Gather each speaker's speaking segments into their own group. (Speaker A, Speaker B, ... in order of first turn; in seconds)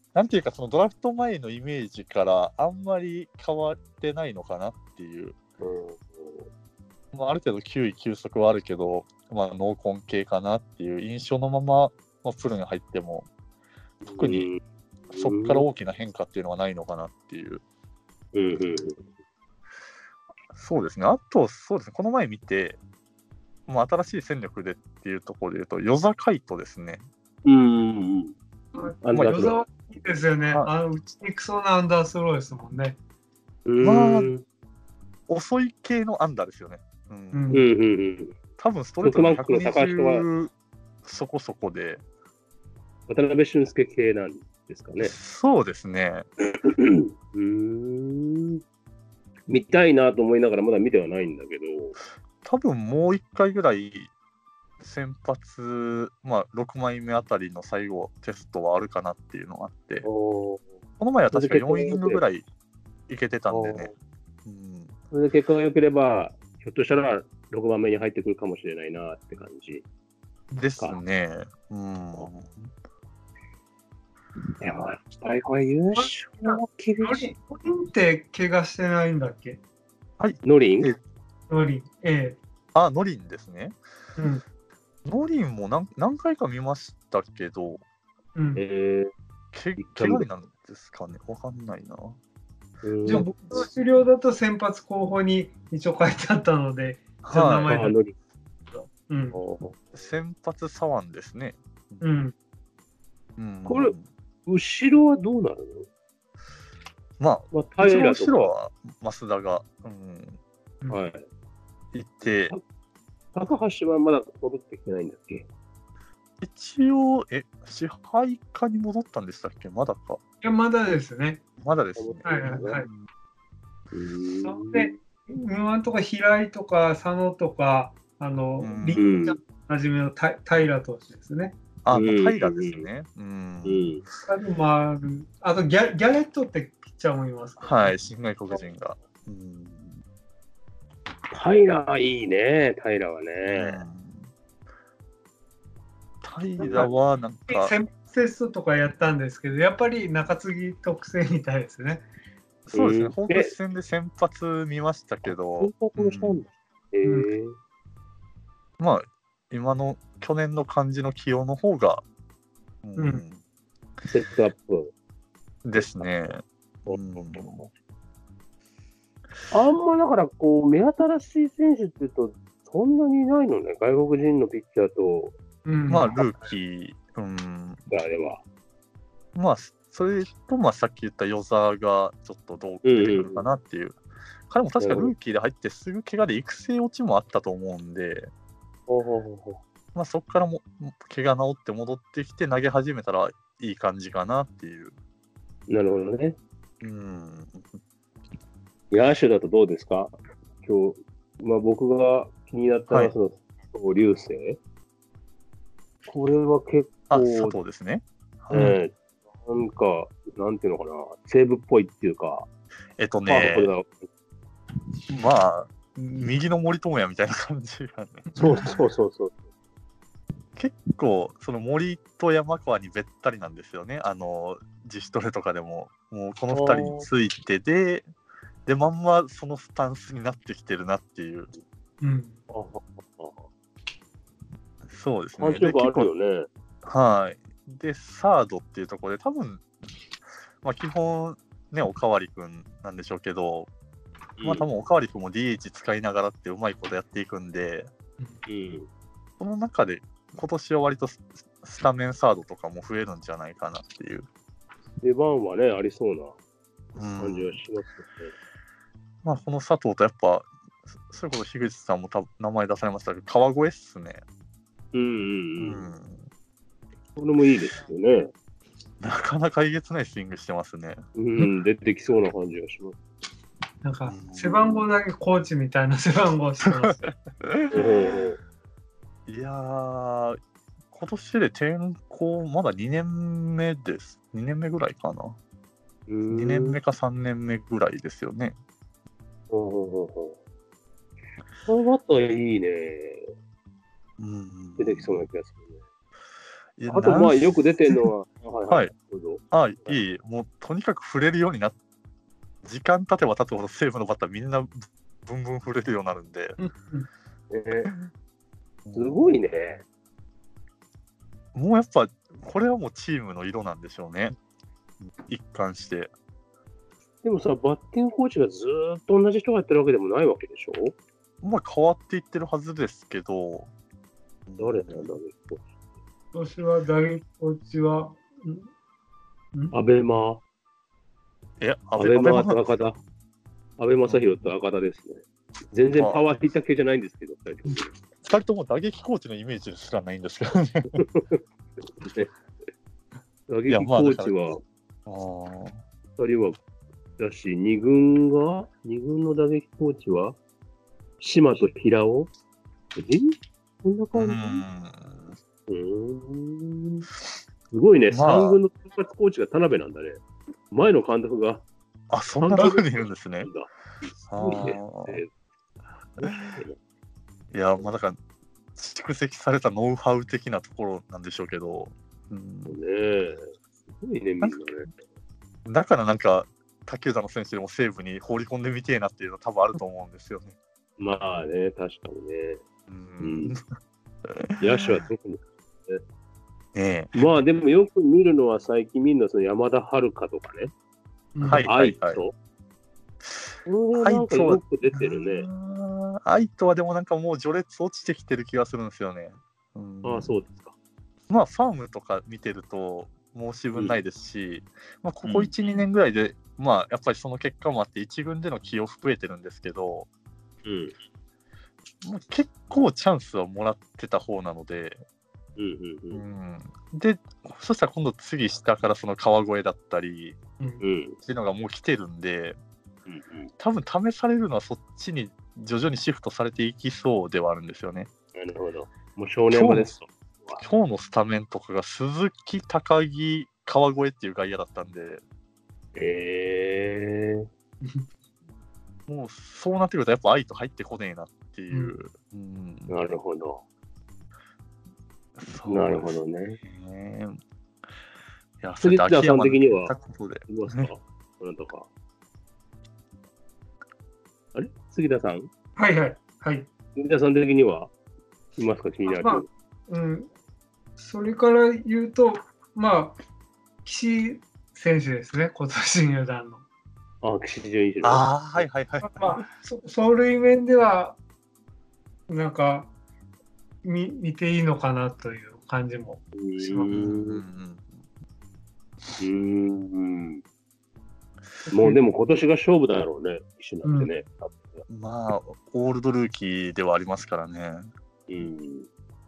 Speaker A: 0.1-5.4, 7.1-13.3, 14.2-14.5, 15.1-17.6, 20.5-22.8, 23.7-27.0, 33.8-34.3, 35.3-37.5, 38.6-40.5, 41.0-42.0, 45.0-46.2, 52.4-54.1, 54.8-60.0, 61.0-62.4, 63.1-63.9, 64.4-64.9, 70.6-72.7, 80.2-81.0, 82.7-83.8, 85.0-87.8, 89.5-92.2, 97.2-97.7, 99.9-102.0, 103.4-104.0, 107.2-110.4, 111.9-112.5, 116.4-120.2, 121.6-123.0, 128.6-129.2, 131.8-134.1, 137.6-140.0, 143.4-144.3, 146.2-147.7, 152.7-156.4, 158.8-162.0, 162.8-163.4, 165.6-167.6, 175.9-177.8, 179.3-188.3, 189.9-194.9, 196.8-197.8, 207.1-208.8, 213.0-213.7, 215.1-218.3, 220.6-228.1, 228.7-231.5, 234.9-236.1, 236.8-239.6, 240.6-243.7, 244.4-247.9, 249.4-254.3, 256.9-257.6, 259.2-260.5, 261.0-264.2, 265.6-266.2, 269.0-271.0, 274.1-274.8, 276.6-277.9, 279.3-280.4, 280.9-285.4, 286.3-288.6, 294.2-295.2, 296.8-298.0, 299.5-301.8, 302.6-306.6, 308.8-309.4, 311.5-314.3, 315.1-316.1, 321.4-323.7, 324.5-325.1, 331.6-332.8, 334.1-334.4, 335.9-336.2, 338.2-341.0, 343.7-344.3, 345.1-345.8, 354.1-355.4, 358.1-358.6, 362.1-363.5, 364.3-365.2, 366.2-366.6, 367.5-368.2, 368.8-372.8, 375.6-380.5, 382.9-383.6, 384.4-384.8, 386.7-387.2, 391.4-392.2, 394.0-400.3, 401.3-410.1, 412.0-415.0, 416.1-420.4, 421.2-422.6, 423.6-428.1, 429.5-429.9, 430.6-435.2, 439.1-442.9, 445.4-447.4, 448.6-450.9, 468.0-469.4, 476.9-477.9, 484.9-487.9
Speaker B: 5.6-6.5, 14.0-15.6, 18.3-19.0, 27.4-28.3, 29.0-29.6, 33.7-34.4, 37.5-38.3, 39.0-40.2, 43.1-45.1, 46.6-48.6, 49.5-51.9, 60.0-60.6, 61.3-62.2, 63.5-63.9, 65.1-69.8, 74.6-77.3, 80.4-80.9, 88.5-89.1, 89.8-90.2, 92.8-93.3, 97.6-98.1, 99.3-99.8, 103.7-103.9, 104.5-105.9, 107.5-108.5, 110.9-111.2, 113.3-115.5, 122.0-122.8, 123.9-125.0, 128.9-129.4, 131.9-132.8, 133.6-134.0, 141.3-143.8, 146.6-146.9, 152.7-153.5, 155.6-157.6, 164.1-164.9, 166.8-167.7, 169.5-175.3, 177.9-178.4, 182.8-183.4, 184.8-185.1, 188.9-189.6, 195.7-196.4, 198.9-204.6, 206.1-207.5, 208.5-212.5, 213.3-214.1, 218.4-219.3, 226.5-227.1, 232.5-233.4, 235.4-236.5, 244.4-244.7, 248.5-248.9, 255.0-256.3, 257.2-258.3, 264.9-265.9, 267.1-268.3, 271.1-273.0, 277.7-278.4, 286.1-286.8, 289.5-290.4, 291.6-293.3, 294.8-295.7, 296.9-300.0, 307.5-307.9, 308.9-309.8, 317.2-320.9, 324.6-325.6, 329.7-330.4, 332.0-333.0, 333.8-337.9, 340.9-341.4, 342.0-342.3, 343.5-344.6, 346.2-346.6, 347.2-350.4, 351.2-352.3, 352.9-354.6, 355.7-357.1, 357.7-360.2, 360.7-361.6, 362.4-365.3, 366.2-366.8, 372.7-374.9, 381.0-382.6, 383.2-383.5, 384.6-386.0, 387.1-390.7, 391.6-392.3, 393.6-395.5, 400.0-400.7, 403.7-404.0, 405.2-405.5, 410.6-410.9, 415.6-416.2, 420.8-421.2, 423.1-423.5, 428.4-430.6, 435.9-437.5, 442.9-443.6, 445.7-446.6, 448.8-449.9, 450.5-451.9, 454.5-455.5, 456.9-457.9, 458.6-459.5, 467.2-468.6, 476.4-477.4, 479.2-480.4, 481.7-484.8, 488.3-488.9
Speaker C: 28.7-33.0, 37.3-37.7, 76.0-79.6, 81.5-82.4, 84.2-84.4, 88.3-88.6, 93.0-97.9, 99.1-99.4, 102.0-102.3, 120.4-121.4, 122.2-122.8, 124.4-131.6, 134.2-137.9, 147.5-152.0, 163.0-163.2, 175.6-176.1, 218.3-218.6, 232.0-232.4, 273.8-277.0, 306.6-307.1, 326.3-328.7, 391.3-391.7, 455.8-456.7, 459.1-460.3, 461.0-463.2, 463.8-466.6, 469.0-471.2, 472.3-472.9, 473.8-477.0, 481.7-482.0, 483.8-484.1